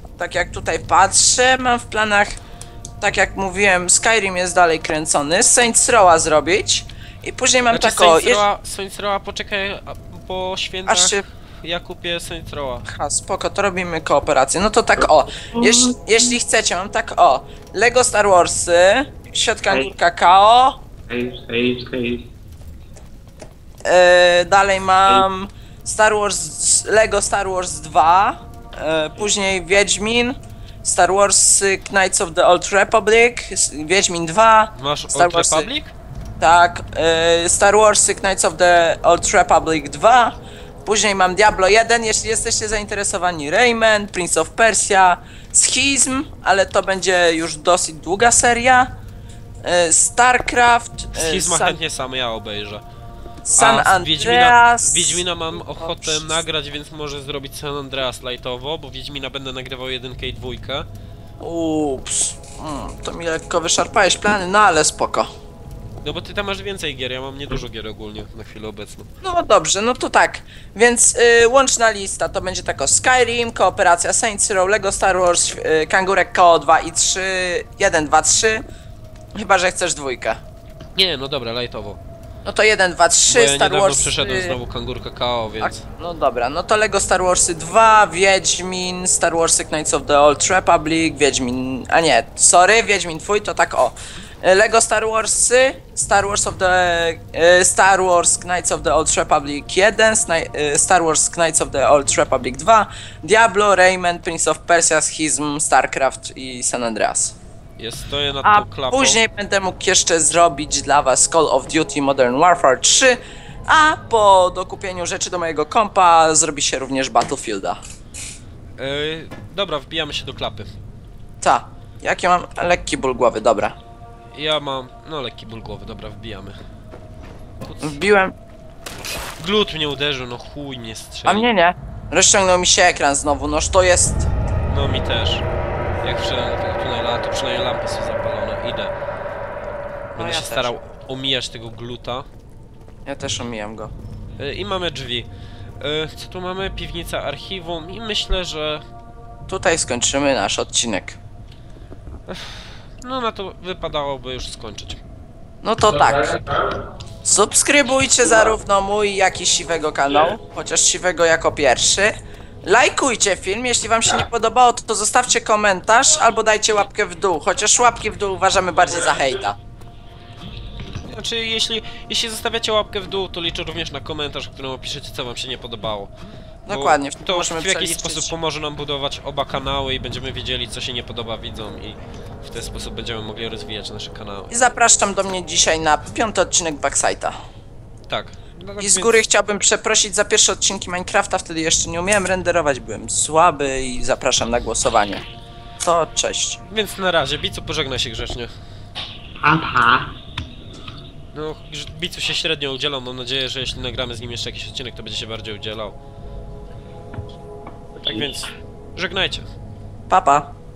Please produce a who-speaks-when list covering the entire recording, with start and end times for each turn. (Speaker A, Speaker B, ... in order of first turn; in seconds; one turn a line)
Speaker A: 0.2-2.4
Speaker A: 3.0-8.4
Speaker B: 7.7-12.8
Speaker A: 10.8-11.2
Speaker A: 12.9-20.8
Speaker C: 15.0-16.1
Speaker C: 21.1-22.3
Speaker A: 23.8-35.7
Speaker B: 34.8-35.9
Speaker A: 36.4-48.9
Speaker A: 49.6-51.8
Speaker B: 51.1-52.8
Speaker A: 53.5-56.2
Speaker B: 53.5-60.9
Speaker A: 61.4-65.3
Speaker B: 66.0-69.1
Speaker A: 69.2-78.6
Speaker A: 79.3-80.4
Speaker B: 80.9-82.0
Speaker A: 82.4-84.6
Speaker B: 83.3-85.8
Speaker A: 85.6-107.3
Speaker B: 107.8-109.2
Speaker A: 108.4-117.8
Speaker B: 118.8-120.7
Speaker A: 121.4-123.7
Speaker B: 124.3-126.6
Speaker B: 127.6-128.0
Speaker A: 127.8-128.3
Speaker B: 129.4-131.5
Speaker A: 131.2-134.3
Speaker B: 134.7-135.4
Speaker B: 136.0-138.9
Speaker B: 140.1-142.3
Speaker A: 140.2-140.7
Speaker A: 143.1-143.9
Speaker B: 144.4-145.3
Speaker B: 145.8-148.8
Speaker A: 149.5-151.2
Speaker B: 152.3-155.0
Speaker A: 155.6-156.3
Speaker A: 157.2-169.6
Speaker B: 171.0-176.1
Speaker A: 176.7-178.3
Speaker B: 176.7-184.5
Speaker A: 184.5-187.3
Speaker B: 188.1-189.2
Speaker A: 188.8-195.2
Speaker A: 195.8-196.6
Speaker B: 196.7-198.5
Speaker C: 199.4-200.1
Speaker B: 201.3-205.9
Speaker B: 208.0-209.5
Speaker A: 210.1-210.5